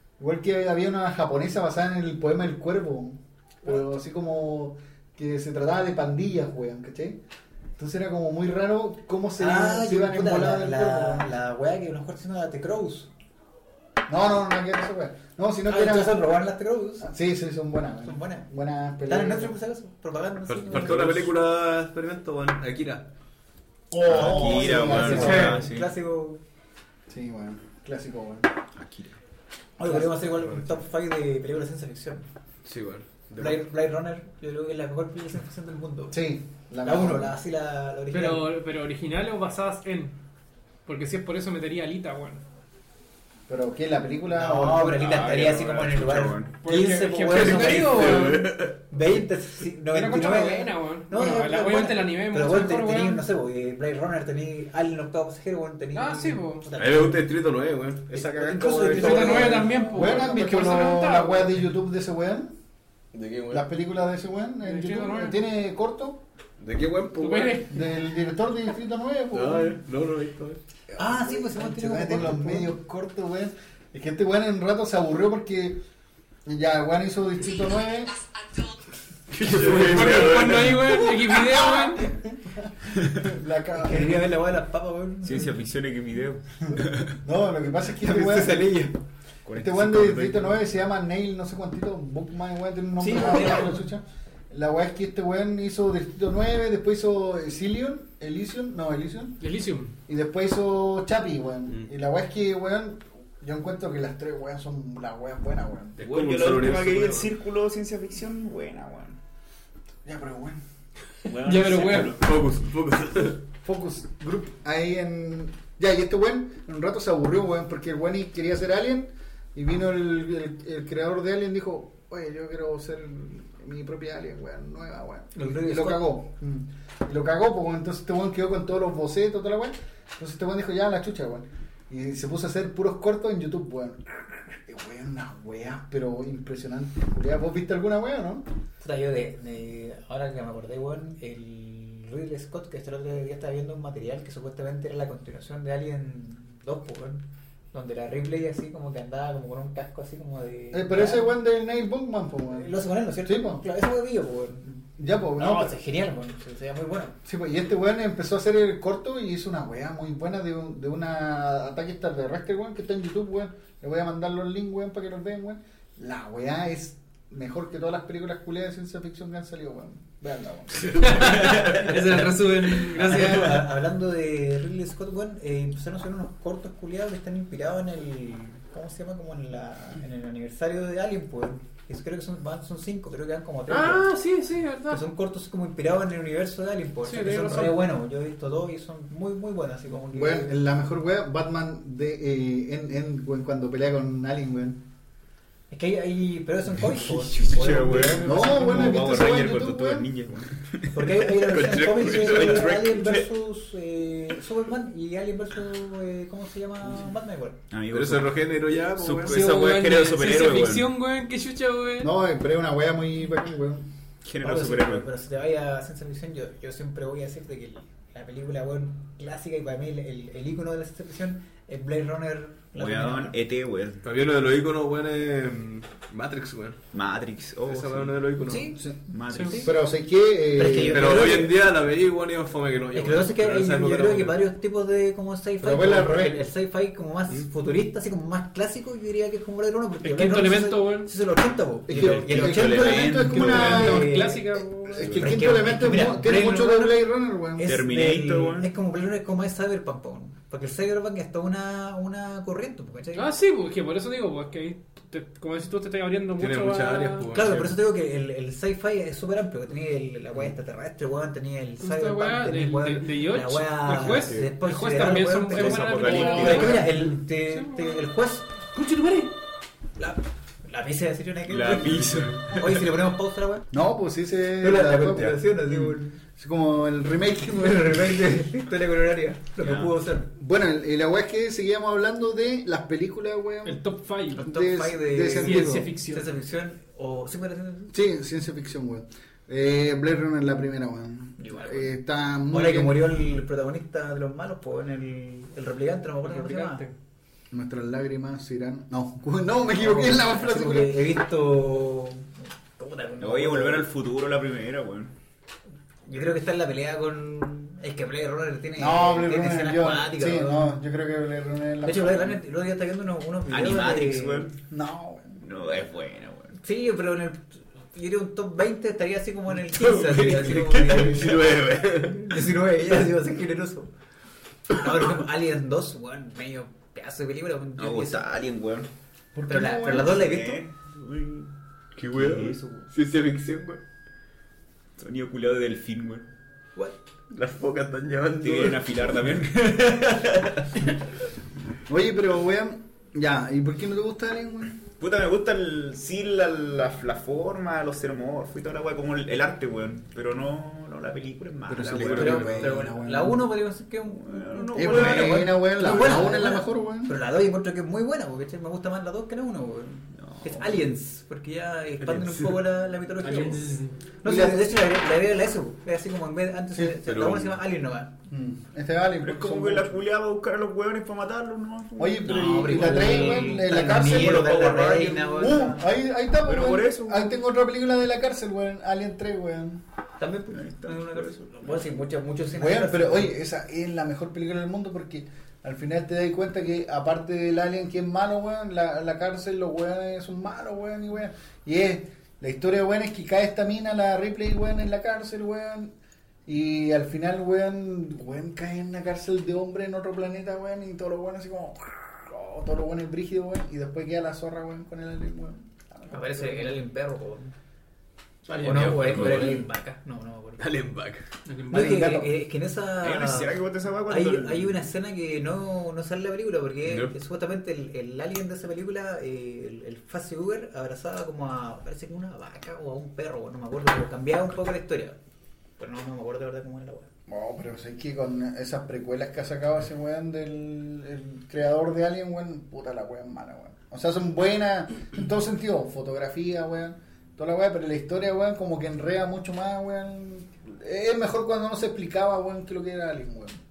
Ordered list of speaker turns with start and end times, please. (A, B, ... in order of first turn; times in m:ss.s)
0:00.2-0:07.2 A
0:07.8-0:11.3 A
0:09.4-0:13.1 B
0:14.1-0:16.2 A
0:15.7-0:17.1 B
0:17.0-0:19.6 A
0:18.0-0:18.5 B
0:19.1-0:21.3 B
0:20.5-0:23.1 C
0:23.9-0:25.6 A
0:24.0-0:25.9 D
0:24.2-0:26.4 B
0:25.1-0:25.6 E
0:27.1-0:28.5 A
0:28.8-0:29.2 D
0:29.8-0:32.3 B
0:30.3-0:30.8 C
0:32.6-0:33.6 C
0:33.4-0:36.2 B
0:36.1-0:37.4 A
0:36.8-0:38.5 B
0:38.1-0:40.2 E
0:40.9-0:42.4 E
0:43.5-0:45.2 A
0:44.3-0:57.2 B
0:44.9-0:46.6 D
0:46.6-0:48.5 E
0:47.3-0:48.8 C
0:49.9-0:53.2 E
0:56.0-0:56.7 E
0:56.8-0:59.9 C
0:58.1-1:00.2 B
0:58.9-1:01.6 E
0:59.6-1:02.5 A
1:03.1-1:03.6 C
1:03.5-1:06.2 A
1:04.6-1:05.4 E
1:06.6-1:07.7 C
1:07.2-1:07.8 E
1:07.7-1:09.8 A
1:09.3-1:10.6 C
1:10.9-1:15.8 A
1:11.0-1:12.7 B
1:16.5-1:18.2 A
1:19.3-1:20.8 C
1:19.4-1:24.3 A
1:19.6-1:22.1 E
1:23.8-1:25.5 B
1:25.2-1:27.2 D
1:26.7-1:28.8 A
1:28.0-1:29.0 B
1:29.5-1:30.6 D
1:29.6-1:39.4 A
1:33.0-1:33.8 B
1:39.4-1:39.9 E
1:40.1-1:46.0 A
1:46.0-1:47.3 C
1:46.0-1:49.2 D
1:50.0-1:50.6 A
1:51.3-1:52.4 D
1:51.3-1:52.2 E
1:51.9-1:53.4 C
1:53.6-2:18.5 A
2:05.3-2:06.1 B
2:18.8-2:31.3 B
2:30.7-2:32.7 A
2:32.5-2:34.7 B
2:33.2-2:33.6 A
2:34.8-2:35.7 A
2:35.4-2:37.2 B
2:37.2-2:51.2 A
2:51.0-2:53.6 E
2:51.2-2:52.1 D
2:51.7-3:04.1 B
3:03.7-3:05.0 E
3:04.9-3:10.6 B
3:07.1-3:07.8 E
3:10.1-3:14.8 A
3:15.7-3:19.0 B
3:17.0-3:21.1 D
3:17.9-3:20.1 A
3:20.9-3:27.6 B
3:21.4-3:22.7 C
3:22.0-3:23.3 D
3:27.7-3:30.9 D
3:27.9-3:29.6 C
3:29.3-3:32.1 E
3:32.0-3:33.9 A
3:34.2-3:35.1 D
3:34.4-3:43.4 B
3:42.8-3:44.0 D
3:44.0-3:46.8 C
3:46.9-3:48.2 D
3:47.6-3:48.7 C
3:48.5-3:48.9 B
3:49.1-3:49.8 D
3:49.3-3:49.7 E
3:49.4-3:49.7 B
3:49.6-3:51.4 A
3:50.5-3:51.6 B
3:50.8-3:54.4 C
3:52.9-4:04.5 B
3:55.6-3:56.4 A
4:00.0-4:01.1 E
4:01.9-4:04.2 A
4:01.9-4:04.0 D
4:03.3-4:05.2 E
4:04.9-4:07.8 A
4:05.0-4:05.3 C
4:05.1-4:13.3 B
4:07.6-4:08.7 D
4:13.1-4:17.3 E
4:16.4-4:17.7 C
4:17.3-4:28.5 B
4:21.8-4:28.0 E
4:25.5-4:26.8 D
4:26.4-4:26.8 A
4:28.7-4:29.3 E
4:30.0-4:33.7 B
4:31.5-4:32.9 D
4:33.7-4:35.4 A
4:34.6-4:36.2 B
4:36.4-4:38.2 A
4:37.4-4:40.3 B
4:39.6-4:39.9 D
4:40.4-4:43.8 A
4:43.6-4:44.4 E
4:44.3-4:48.0 B
4:44.4-4:45.9 A
4:45.3-4:46.3 E
4:47.9-4:53.0 A
4:51.4-4:52.0 B
4:52.5-4:56.9 B
4:56.2-4:56.9 E
4:57.5-5:01.0 A
4:59.8-5:03.9 B
5:03.2-5:05.1 D
5:06.1-5:10.7 B
5:08.8-5:12.4 A
5:11.8-5:14.5 B
5:13.5-5:14.6 D
5:14.7-5:15.4 A
5:15.4-5:16.5 D
5:16.6-5:23.9 B
5:19.7-5:22.5 C
5:24.7-5:28.3 B
5:27.8-5:28.9 D
5:29.4-5:30.3 A
5:29.5-5:30.6 B
5:29.7-5:31.5 D
5:32.0-5:33.8 C
5:32.1-5:32.8 D
5:35.0-5:36.3 D
5:37.3-5:39.0 C
5:38.4-5:40.9 D
5:41.9-5:44.8 A
5:45.0-5:52.7 D
5:51.7-5:52.7 C
5:51.7-5:53.5 A
5:52.2-6:08.2 B
5:54.1-5:55.5 D
5:54.8-5:57.2 A
6:00.2-6:00.8 D
6:02.0-6:02.6 C
6:03.2-6:04.0 E
6:04.2-6:04.7 A
6:07.0-6:07.6 C
6:08.3-6:10.0 A
6:09.2-6:13.3 D
6:12.0-6:14.6 A
6:12.2-6:15.9 B
6:14.0-6:15.5 D
6:15.4-6:19.8 A
6:16.4-6:17.2 D
6:20.2-6:23.4 B
6:20.5-6:21.8 D
6:22.5-6:35.9 A
6:36.5-6:46.8 A
6:46.1-6:47.6 B
6:48.5-6:49.4 E
6:48.5-6:49.6 C
6:48.6-6:50.7 B
6:50.6-6:51.2 C
6:51.5-6:52.1 E
6:51.7-6:53.6 B
6:51.7-6:52.3 A
6:53.0-6:54.8 D
6:54.1-7:05.2 B
6:56.8-6:57.1 C
7:05.8-7:07.1 B
7:07.3-7:23.6 A